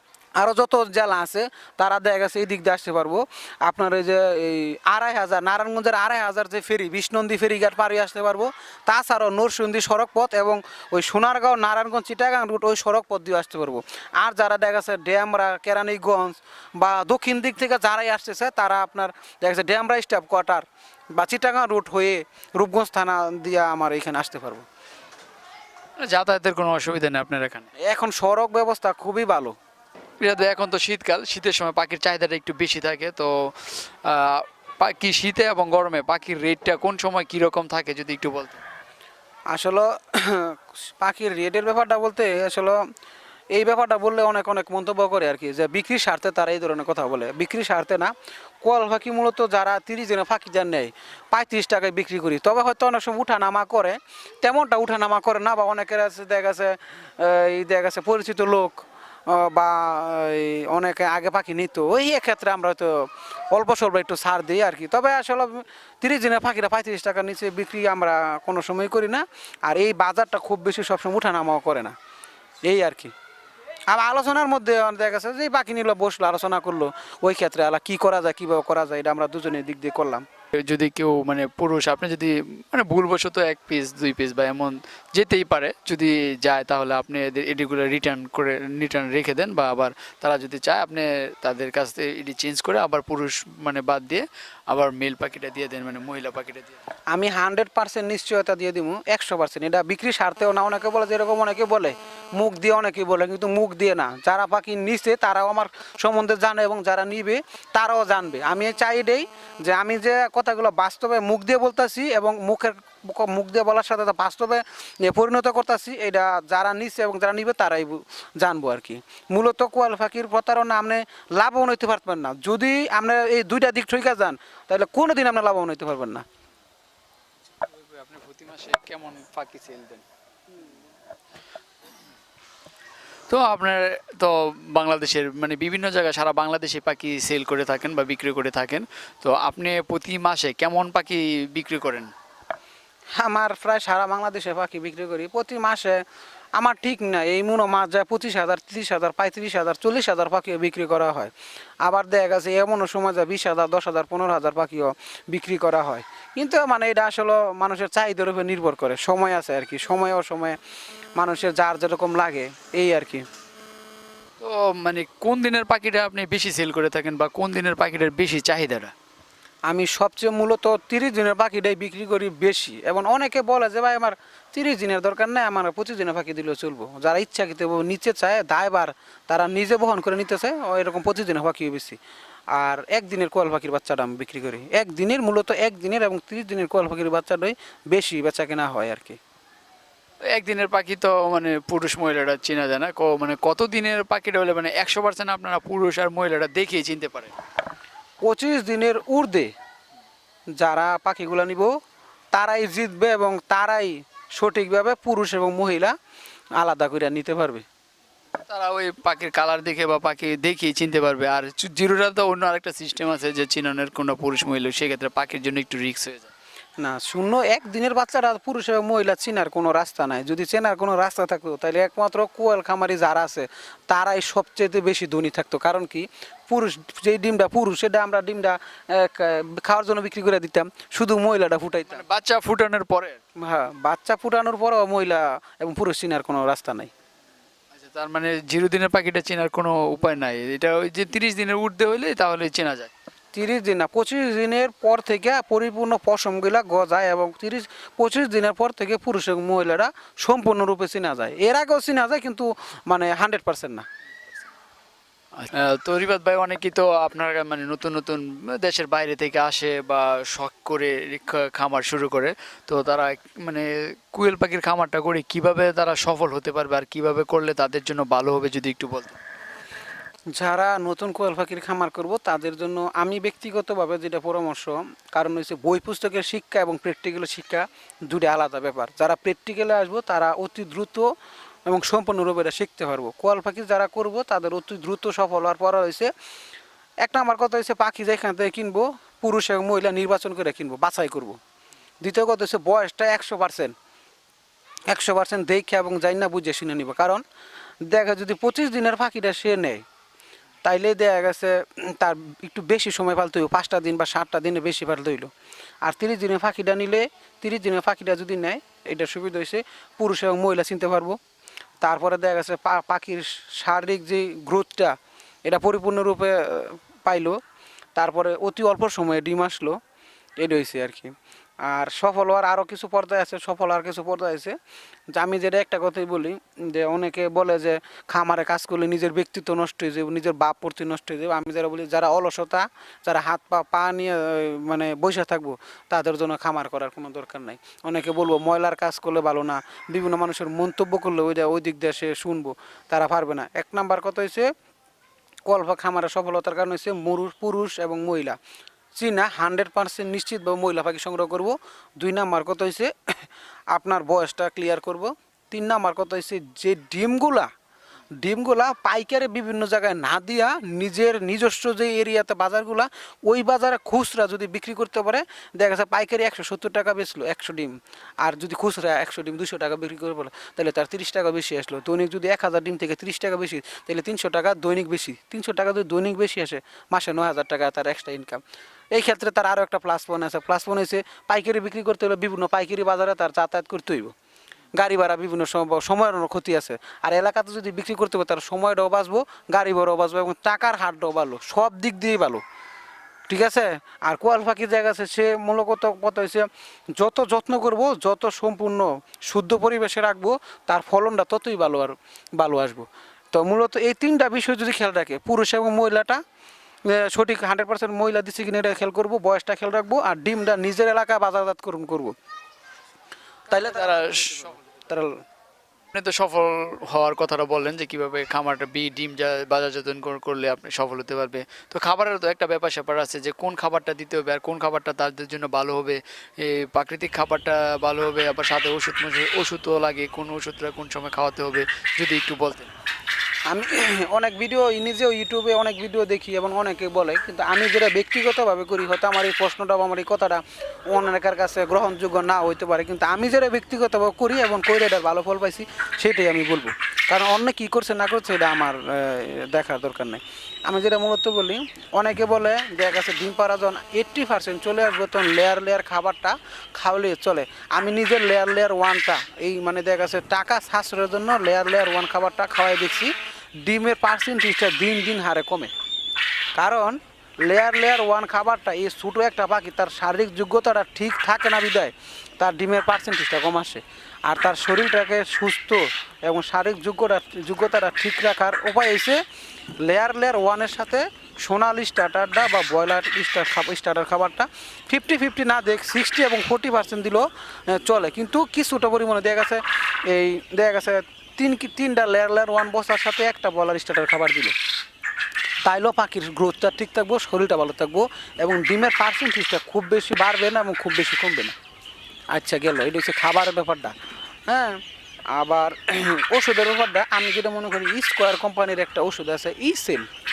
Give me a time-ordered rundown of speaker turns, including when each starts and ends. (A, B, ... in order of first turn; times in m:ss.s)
0:00.4-0:24.6 A
0:26.0-0:27.7 B
0:27.8-0:29.6 A
0:30.2-0:38.6 B
0:39.5-0:42.8 A
0:43.5-1:11.9 A
1:12.6-1:13.1 A
1:13.9-1:20.2 A
1:20.6-1:36.8 B
1:37.1-2:06.2 A
2:07.7-2:10.0 B
2:13.3-2:22.1 B
2:23.2-2:26.0 A
2:26.6-2:40.6 A
2:41.2-2:43.2 A
2:44.4-2:48.9 B
2:49.7-3:02.0 A
3:02.5-3:09.2 A
3:10.3-3:17.3 B
3:18.2-3:19.5 A
3:20.6-3:21.7 A
3:22.3-3:25.9 A
3:26.6-3:27.6 A
3:28.5-3:36.3 B
3:36.8-3:52.0 A
3:51.9-3:53.2 B
3:53.4-3:56.9 A
3:57.7-4:02.9 B
4:03.3-4:13.8 A
4:15.4-4:29.2 B
4:30.3-4:41.1 A
4:41.7-4:46.1 A
4:47.0-4:51.4 A
4:52.0-4:53.7 A
4:54.9-4:57.2 A
4:57.8-4:59.8 A
5:00.6-5:05.3 A
5:05.8-5:11.2 A
5:11.8-5:17.4 A
5:18.0-5:19.8 A
5:20.4-5:24.6 A
5:25.1-5:44.5 A
5:45.4-5:48.4 A
5:49.0-5:57.5 A
5:58.2-6:24.1 A
6:24.8-6:32.4 A
6:33.3-6:46.2 A
6:46.8-6:52.1 A
6:53.5-6:55.2 A
6:53.5-6:54.6 B
6:55.9-7:12.7 B
7:13.5-7:45.7 A
7:46.6-7:59.2 A
7:59.8-8:14.5 A
8:15.6-8:21.5 A
8:22.3-8:24.0 A
8:24.5-8:24.8 A
8:25.3-8:30.1 A